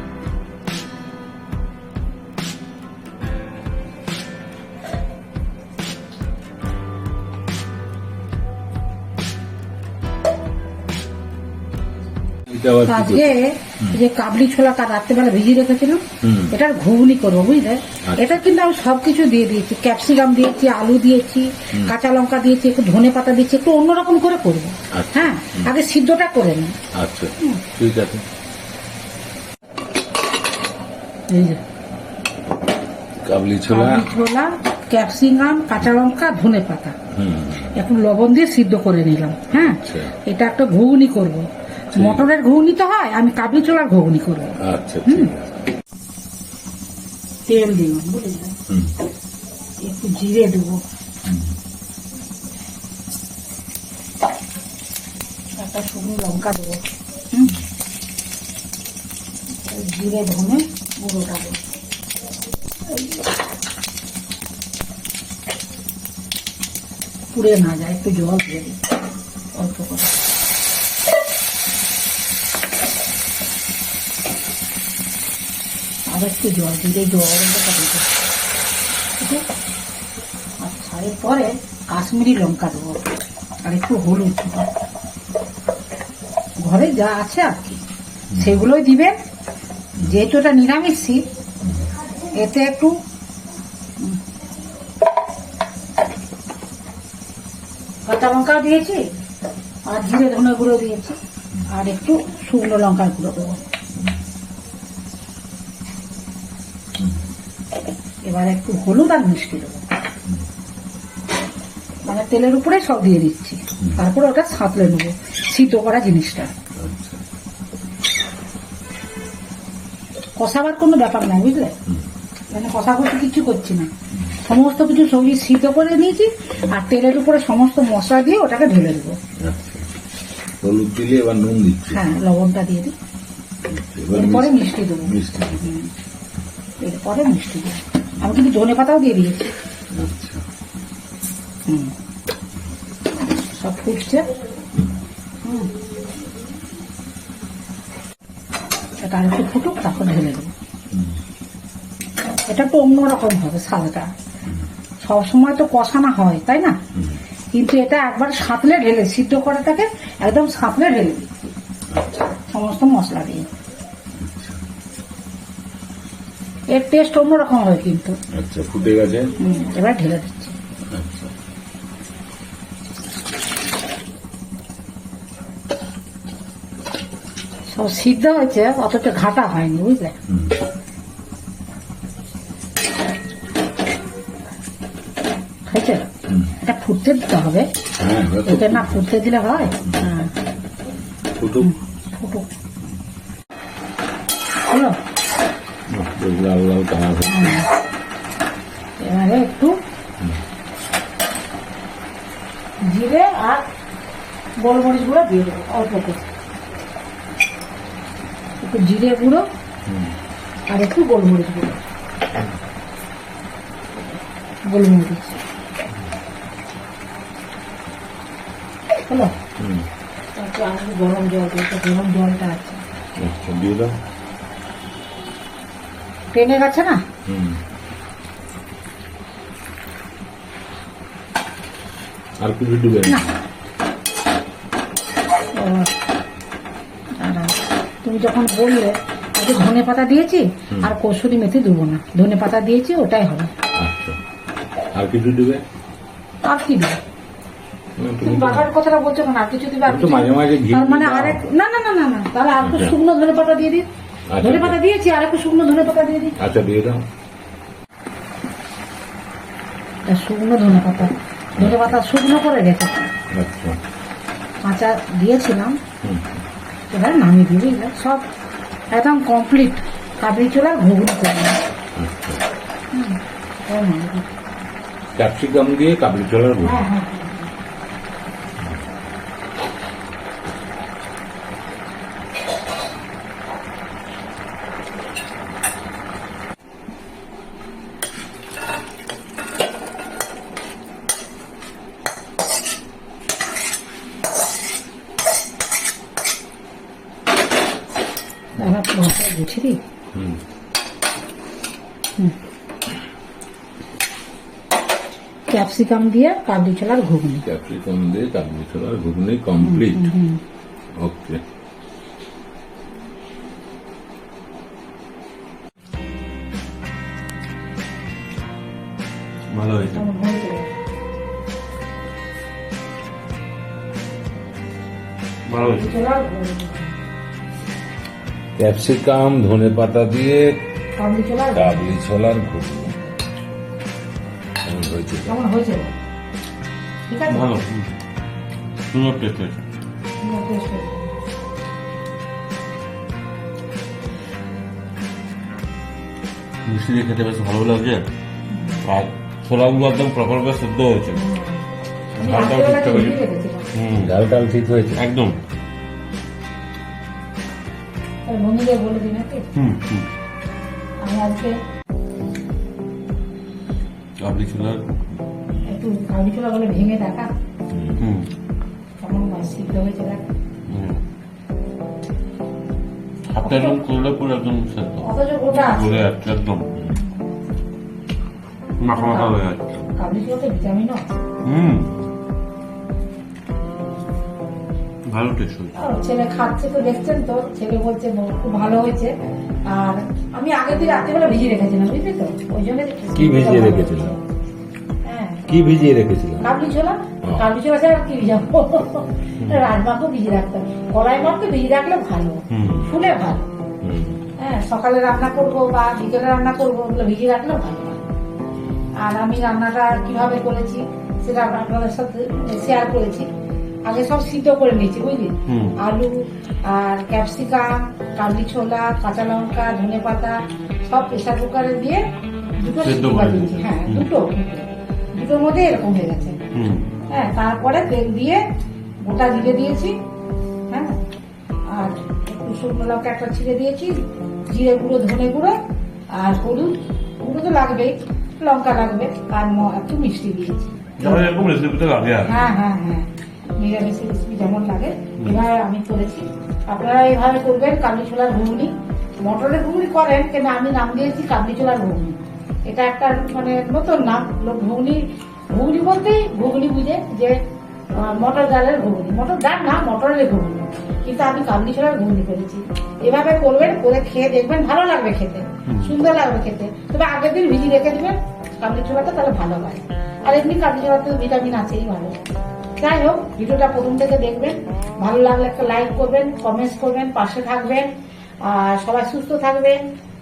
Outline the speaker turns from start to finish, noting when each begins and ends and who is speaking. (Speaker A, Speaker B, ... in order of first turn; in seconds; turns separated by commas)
Speaker A: 12.5-14.0, Speaker B: 12.8-26.7, Speaker A: 16.2-16.6, Speaker A: 18.1-18.4, Speaker A: 24.9-25.7, Speaker A: 27.0-28.2, Speaker B: 31.3-31.6, Speaker A: 33.2-34.0, Speaker B: 33.7-37.0, Speaker A: 37.1-37.9, Speaker B: 37.7-45.3, Speaker A: 39.5-40.1, Speaker A: 41.9-42.3, Speaker A: 44.6-45.5, Speaker B: 47.5-48.5, Speaker A: 48.7-48.9, Speaker B: 49.8-50.8, Speaker A: 51.2-51.5, Speaker B: 55.5-57.5, Speaker B: 59.6-61.6, Speaker B: 62.9-63.2, Speaker B: 67.3-68.8, Speaker B: 69.5-70.2, Speaker B: 76.1-78.1, Speaker B: 80.6-83.1, Speaker B: 83.6-84.7, Speaker B: 86.6-87.8, Speaker A: 88.3-88.6, Speaker B: 88.4-89.1, Speaker B: 90.0-91.2, Speaker B: 92.4-92.9, Speaker B: 98.0-99.0, Speaker B: 99.9-101.2, Speaker B: 101.7-103.6, Speaker B: 108.2-109.8, Speaker B: 112.1-116.5, Speaker A: 113.8-114.0, Speaker A: 116.8-117.2, Speaker B: 120.4-121.7, Speaker B: 122.5-123.9, Speaker B: 124.4-129.2, Speaker A: 129.4-129.9, Speaker A: 130.6-132.2, Speaker B: 131.9-132.9, Speaker A: 133.6-135.7, Speaker B: 134.1-135.9, Speaker B: 136.8-139.5, Speaker A: 139.9-140.4, Speaker B: 141.7-141.9, Speaker B: 143.5-144.2, Speaker B: 145.4-145.7, Speaker B: 149.0-150.5, Speaker A: 150.9-151.2, Speaker B: 152.4-154.1, Speaker B: 155.0-156.8, Speaker A: 156.9-157.2, Speaker B: 157.5-161.3, Speaker A: 161.9-162.3, Speaker B: 162.5-163.5, Speaker A: 164.2-164.6, Speaker B: 166.7-168.2, Speaker A: 168.3-169.3, Speaker B: 169.4-170.5, Speaker A: 170.9-171.3, Speaker B: 177.7-180.1, Speaker A: 180.3-180.6, Speaker B: 185.7-186.1, Speaker A: 186.3-186.6, Speaker B: 186.6-187.7, Speaker A: 188.0-189.0, Speaker B: 188.4-190.3, Speaker A: 189.7-190.1, Speaker A: 191.3-191.7, Speaker B: 191.6-192.5, Speaker B: 194.7-195.0, Speaker A: 195.9-197.6, Speaker B: 197.2-197.7, Speaker B: 199.0-199.8, Speaker B: 202.8-203.6, Speaker B: 204.6-206.3, Speaker B: 208.6-209.4, Speaker A: 209.8-210.2, Speaker B: 210.7-211.8, Speaker B: 214.7-215.4, Speaker B: 219.1-219.3, Speaker A: 219.3-219.8, Speaker B: 220.3-222.8, Speaker A: 223.2-223.9, Speaker B: 226.3-227.0, Speaker A: 227.3-227.6, Speaker A: 232.4-233.3, Speaker B: 235.5-235.9, Speaker B: 237.2-243.5, Speaker A: 243.8-244.2, Speaker A: 244.9-245.6, Speaker B: 246.4-247.0, Speaker A: 248.0-248.7, Speaker B: 248.2-253.9, Speaker A: 249.8-251.4, Speaker A: 252.6-253.0, Speaker A: 254.3-254.8, Speaker B: 254.4-256.4, Speaker A: 256.4-257.0, Speaker B: 260.1-263.1, Speaker A: 261.6-262.0, Speaker A: 263.3-263.8, Speaker B: 264.6-265.8, Speaker A: 266.0-266.4, Speaker B: 266.9-268.3, Speaker B: 268.9-271.6, Speaker A: 271.9-272.4, Speaker B: 272.9-274.3, Speaker A: 275.1-276.8, Speaker B: 276.6-277.5, Speaker B: 298.6-299.8, Speaker A: 300.1-300.4, Speaker B: 305.5-307.4, Speaker A: 307.4-310.1, Speaker B: 309.6-310.4, Speaker A: 311.0-311.4, Speaker C: 319.5-320.0, Speaker B: 319.9-320.7, Speaker C: 325.5-325.9, Speaker B: 325.8-326.9, Speaker A: 328.6-330.6, Speaker B: 331.0-331.9, Speaker A: 331.5-333.0, Speaker A: 334.6-335.4, Speaker B: 335.2-335.9, Speaker B: 337.1-337.5, Speaker C: 337.3-337.9, Speaker C: 338.9-339.6, Speaker B: 340.2-341.1, Speaker C: 346.6-348.1, Speaker B: 348.5-348.8, Speaker C: 348.8-351.2, Speaker B: 351.1-351.6, Speaker C: 352.1-353.2, Speaker B: 352.2-353.6, Speaker C: 353.8-354.1, Speaker A: 354.0-355.1, Speaker C: 355.0-355.4, Speaker B: 358.2-359.4, Speaker C: 359.6-360.1, Speaker B: 361.0-361.5, Speaker C: 364.2-364.8, Speaker B: 365.6-367.3, Speaker A: 367.7-368.0, Speaker C: 368.0-368.3, Speaker B: 369.0-370.2, Speaker C: 370.7-371.0, Speaker C: 373.3-376.7, Speaker B: 373.4-373.8, Speaker B: 375.0-376.1, Speaker B: 376.9-377.3, Speaker C: 378.8-379.6, Speaker B: 378.9-379.4, Speaker B: 380.0-381.1, Speaker C: 381.4-381.9, Speaker C: 385.1-385.7, Speaker B: 385.8-389.1, Speaker B: 389.7-394.2, Speaker A: 393.1-394.2, Speaker B: 395.0-395.4, Speaker A: 395.5-396.5, Speaker B: 396.4-403.5, Speaker A: 397.2-397.5, Speaker C: 399.4-399.7, Speaker C: 402.5-402.9, Speaker A: 403.8-404.2, Speaker B: 404.4-408.1, Speaker B: 409.0-413.3, Speaker B: 413.9-416.1, Speaker C: 415.5-415.8, Speaker B: 416.7-422.0, Speaker B: 422.6-426.4, Speaker C: 422.8-424.1, Speaker C: 426.5-426.9, Speaker B: 427.1-428.4, Speaker B: 429.0-429.9, Speaker B: 430.7-431.0, Speaker B: 431.7-433.9, Speaker B: 434.5-435.5, Speaker B: 436.2-441.3, Speaker C: 441.0-442.4, Speaker B: 442.2-457.4, Speaker B: 457.9-472.1, Speaker C: 465.7-466.0, Speaker B: 472.8-477.9, Speaker B: 478.4-479.8